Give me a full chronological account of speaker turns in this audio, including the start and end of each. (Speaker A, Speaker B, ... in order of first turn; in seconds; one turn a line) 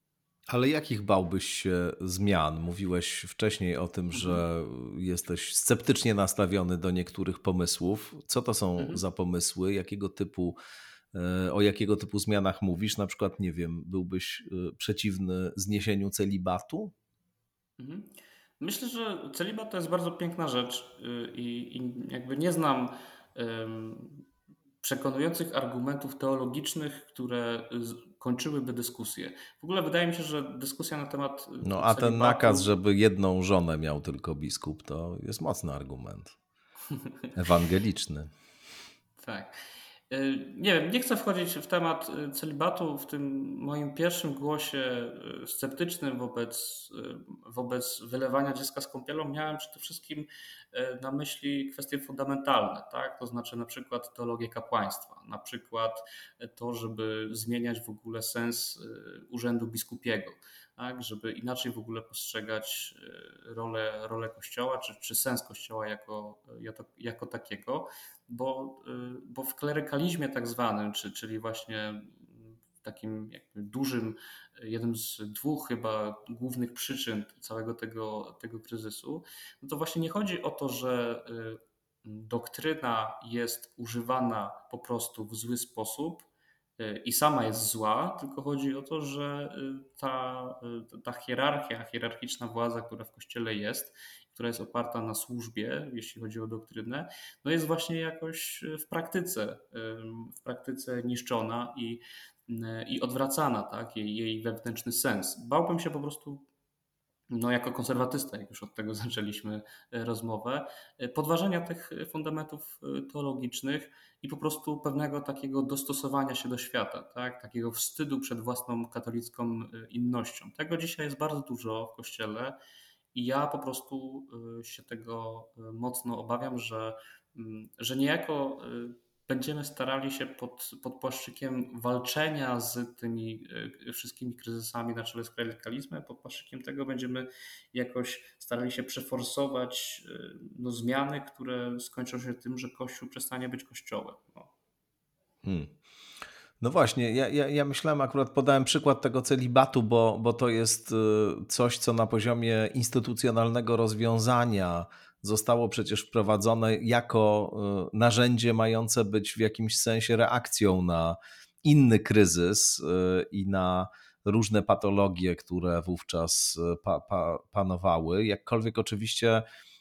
Speaker A: 0.5-10.6
Speaker B: 4.1-4.4
Speaker B: 8.8-9.0
Speaker A: 11.1-16.9
Speaker B: 17.8-24.2
Speaker B: 24.8-32.7
Speaker A: 31.6-36.4
Speaker A: 37.3-38.3
Speaker B: 39.2-39.5
Speaker B: 40.1-86.3
Speaker B: 86.8-106.5
Speaker B: 107.3-122.6
Speaker B: 123.1-144.5
Speaker A: 145.4-145.7
Speaker A: 146.6-169.4